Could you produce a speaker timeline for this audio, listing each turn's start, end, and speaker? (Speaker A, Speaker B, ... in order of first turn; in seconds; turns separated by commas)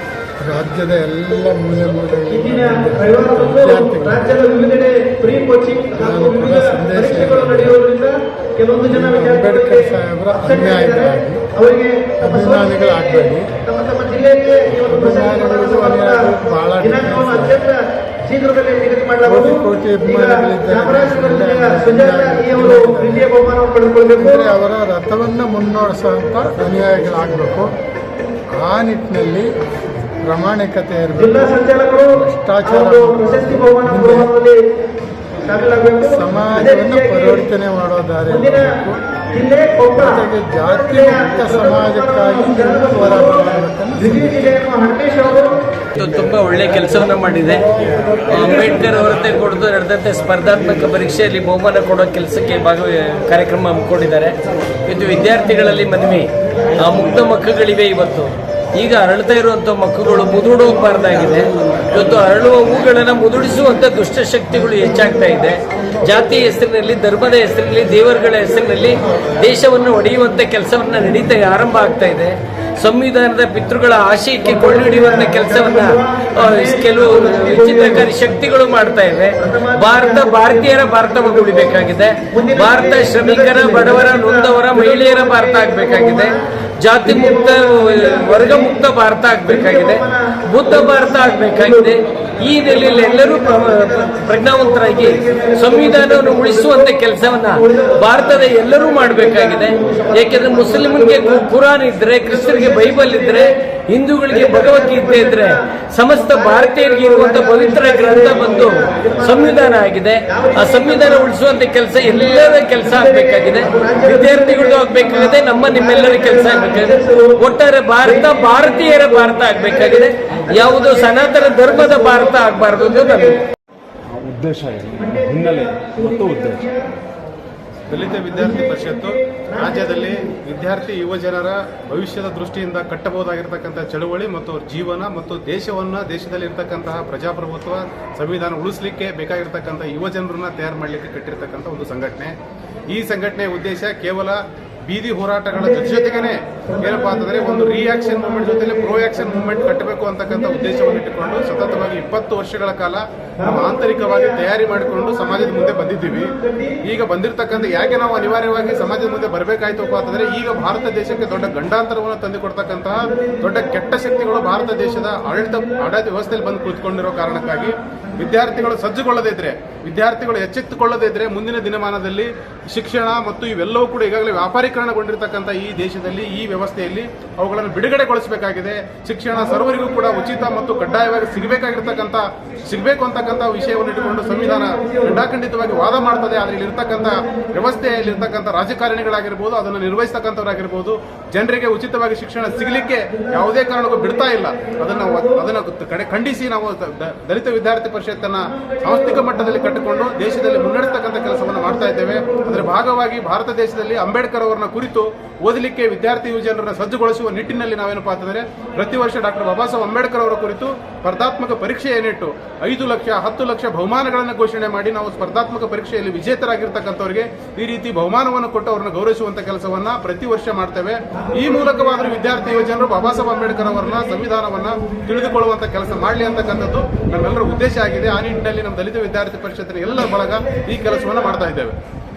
Speaker A: 0.4-4.4, Speaker B: 2.3-24.5, Speaker A: 6.0-7.8, Speaker A: 8.9-11.4, Speaker A: 12.2-13.5, Speaker A: 14.7-17.6, Speaker A: 19.3-23.3, Speaker A: 24.2-27.7, Speaker A: 28.6-29.5, Speaker A: 30.2-31.6, Speaker B: 31.2-34.6, Speaker A: 32.1-34.3, Speaker B: 35.4-37.5, Speaker A: 36.0-39.0, Speaker B: 38.3-38.8, Speaker B: 39.3-45.6, Speaker A: 40.0-44.5, Speaker C: 46.0-47.7, Speaker A: 47.8-48.9, Speaker C: 48.2-123.4, Speaker B: 74.4-78.2, Speaker B: 79.4-86.4, Speaker B: 87.0-88.8, Speaker B: 89.5-101.5, Speaker B: 102.2-103.5, Speaker B: 104.3-111.4, Speaker B: 112.0-123.4, Speaker D: 124.1-126.5, Speaker B: 124.9-126.9, Speaker E: 127.9-142.4, Speaker B: 128.3-130.2, Speaker E: 142.9-231.8, Speaker B: 145.6-149.6, Speaker B: 150.5-151.5, Speaker B: 153.4-156.8, Speaker B: 158.2-158.9, Speaker B: 163.1-165.9, Speaker B: 198.7-202.5